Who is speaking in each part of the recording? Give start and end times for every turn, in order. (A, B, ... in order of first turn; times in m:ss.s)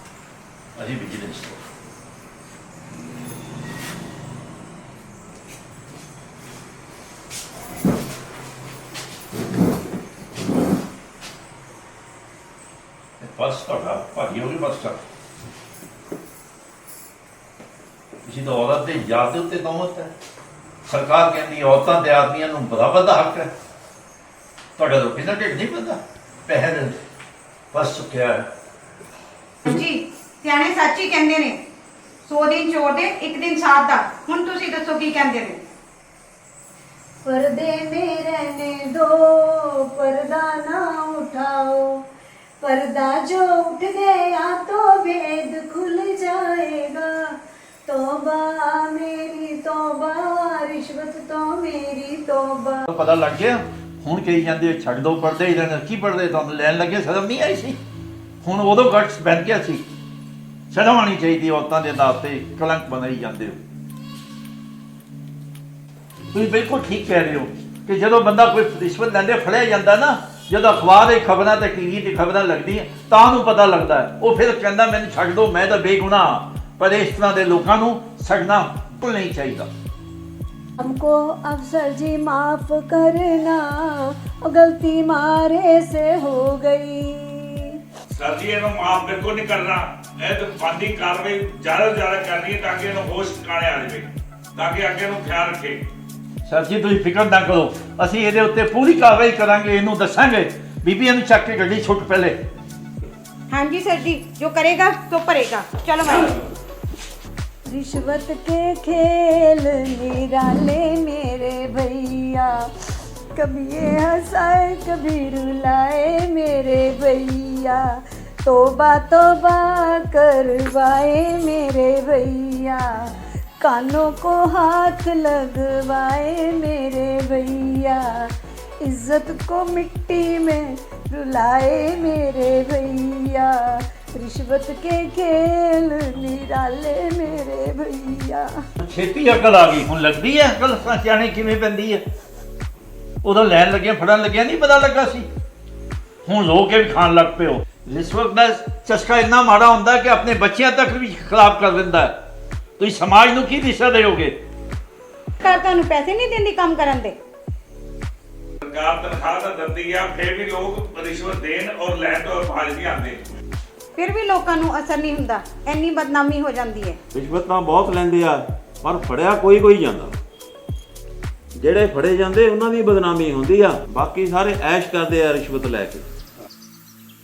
0:00.8-0:01.6 A
0:13.2-0:15.0 A
0:18.2-0:20.1 A
0:20.9-0:23.5 A
0:24.8-0:27.0 A
0:27.7-0:28.5 A
0:29.7-0:31.6 B
0:32.2-0:35.6 B
0:37.2-0:42.0 C
0:42.6-0:47.3 C
0:47.8-0:52.9 C
0:52.9-0:57.8 A
0:58.4-0:59.8 A
1:00.7-1:03.6 A
1:06.3-1:19.7 A
1:20.8-1:27.8 C
1:28.1-1:35.8 D
1:36.4-1:42.4 A
1:43.5-1:46.4 B
1:47.7-2:18.5 C
2:18.8-2:22.0 A
2:23.2-2:25.3 A
2:26.2-2:32.1 A
2:32.8-2:34.4 A
2:35.4-2:37.2 B
2:38.6-2:43.2 D
2:44.0-2:47.0 B
2:47.1-2:50.2 E
2:51.6-2:56.1 E